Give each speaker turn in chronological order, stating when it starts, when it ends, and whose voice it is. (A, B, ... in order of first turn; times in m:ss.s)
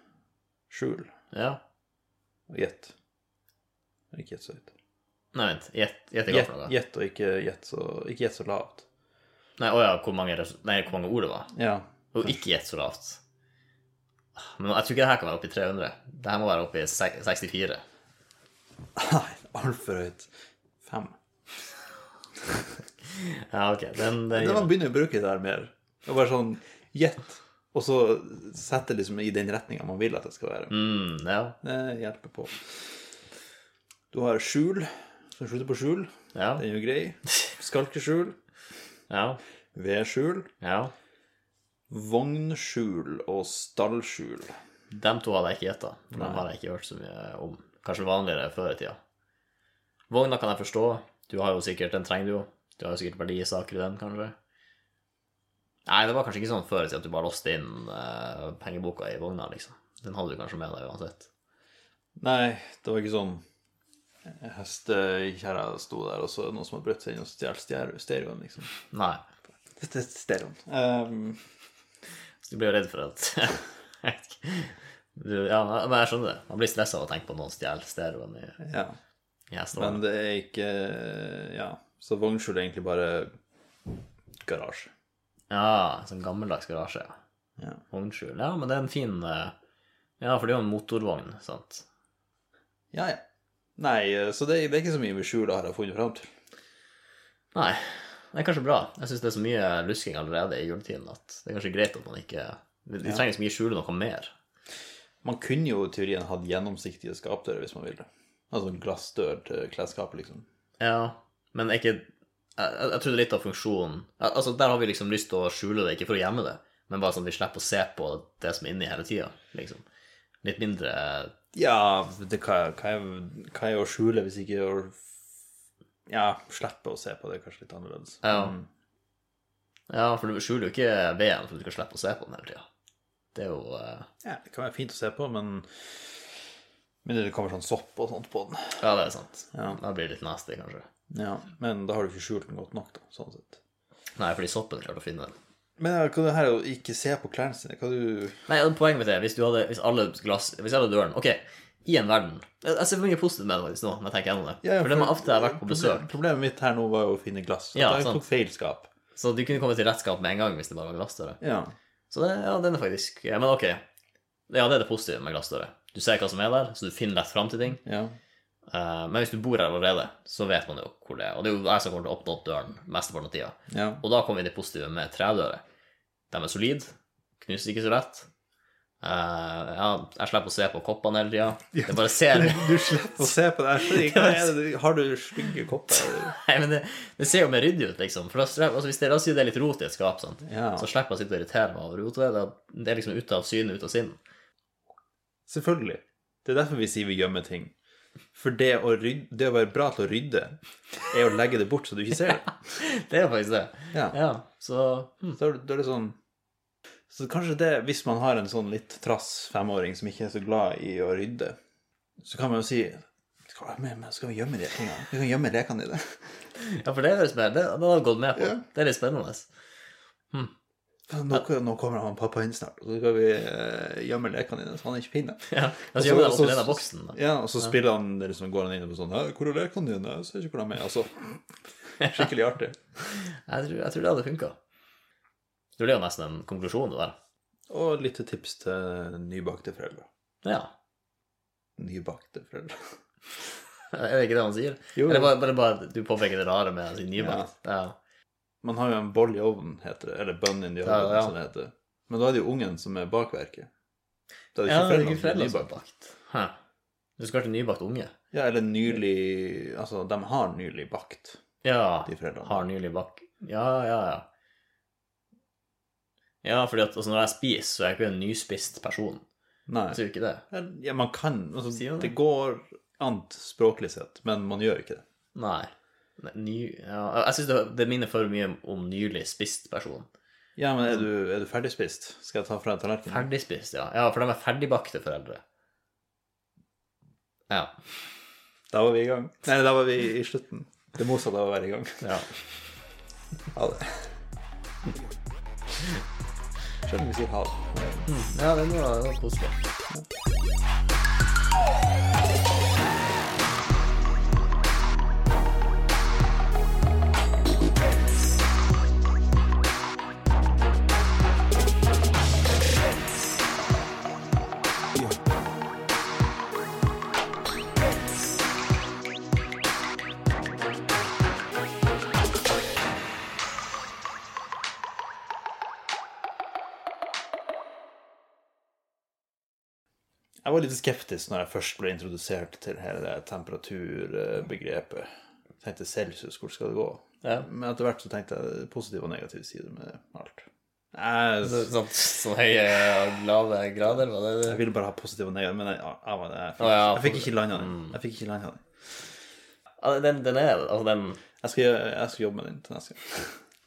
0:00.7-0:01.1 A
0:01.3-0:01.6 B
0:02.5-0:02.9 A
0:04.1-0:04.7 A
0:05.3-0:06.7 B
0:06.3-0:08.9 A
0:09.6-0:11.5 B
0:11.5-0:11.9 A
0:12.1-0:13.2 B
0:14.4-0:17.8 B
0:19.0-0:20.3 A
0:20.8-0:21.2 A
0:23.0-0:24.7 B
0:24.3-0:30.8 A
0:30.7-0:31.6 B
0:31.6-0:32.8 A
0:34.1-0:38.4 A
0:36.3-0:36.6 B
0:39.1-0:39.4 B
0:39.8-0:40.5 A
0:40.6-0:40.9 B
0:41.9-0:44.6 A
0:44.9-0:49.0 B
0:46.1-0:46.4 A
0:50.1-0:54.4 B
0:55.9-1:01.3 B
1:02.2-1:03.4 A
1:04.3-1:08.7 A
1:08.9-1:09.2 B
1:09.8-1:11.4 A
1:12.4-1:18.6 B
1:18.6-1:19.0 A
1:19.5-1:20.0 B
1:19.8-1:23.3 A
1:24.4-1:24.9 A
1:25.5-1:27.2 B
1:27.6-1:27.8 A
1:27.9-1:29.6 B
1:30.2-1:31.9 B
1:32.9-1:33.2 A
1:33.8-1:36.3 A
1:37.5-1:44.3 B
1:45.2-1:50.5 A
1:50.8-1:59.8 B
2:00.4-2:01.4 B
2:01.5-2:05.0 A
2:06.1-2:08.7 A
2:08.2-2:08.6 B
2:09.9-2:12.7 B
2:13.4-2:14.1 B
2:14.2-2:16.2 A
2:17.0-2:18.8 A
2:18.8-2:20.9 B
2:19.5-2:19.8 A
2:21.1-2:23.6 A
2:24.2-2:25.3 B
2:25.8-2:28.5 A
2:28.5-2:36.1 B
2:34.6-2:38.9 A
2:37.8-2:38.2 B
2:39.2-2:41.4 B
2:41.4-2:41.7 A
2:42.1-2:43.8 B
2:44.5-2:47.8 B
2:47.8-2:48.2 A
2:48.7-2:55.6 B
2:53.7-2:54.0 A
2:56.3-2:58.3 B
2:59.0-3:03.2 B
3:01.7-3:06.4 A
3:03.8-3:04.5 B
3:06.0-3:14.2 B
3:10.4-3:10.9 A
3:15.5-3:17.7 A
3:18.3-3:22.8 A
3:22.8-3:25.4 B
3:23.9-3:24.2 A
3:25.3-3:26.2 A
3:27.1-3:31.6 A
3:32.2-3:36.4 A
3:36.6-3:39.5 B
3:38.4-3:38.6 A
3:41.1-3:52.8 A
3:45.5-3:47.7 B
3:53.0-3:54.6 B
3:55.8-3:57.2 B
3:57.7-4:00.1 A
4:00.4-4:00.7 B
4:01.8-4:02.9 A
4:03.9-4:08.0 B
4:05.0-4:05.3 A
4:07.2-4:07.5 A
4:08.6-4:13.7 A
4:10.8-4:11.3 B
4:14.6-4:15.7 A
4:14.6-4:16.6 B
4:17.2-4:18.1 B
4:18.3-4:21.4 A
4:21.6-4:24.3 B
4:22.1-4:22.7 A
4:26.4-4:29.2 B
4:29.7-4:35.0 A
4:29.9-4:30.4 B
4:31.7-4:32.1 B
4:35.4-4:40.1 B
4:40.6-4:43.3 A
4:43.1-4:45.4 B
4:47.5-4:47.8 B
4:48.7-4:52.2 A
4:52.0-4:52.3 B
4:53.5-4:54.2 A
4:56.8-4:58.1 A
4:58.1-4:59.6 B
5:30.4-5:35.1 A
5:35.6-5:41.7 A
5:41.4-5:44.6 B
5:44.4-5:48.6 A
5:46.6-5:48.0 B
5:49.8-5:51.2 B
5:51.4-5:53.4 A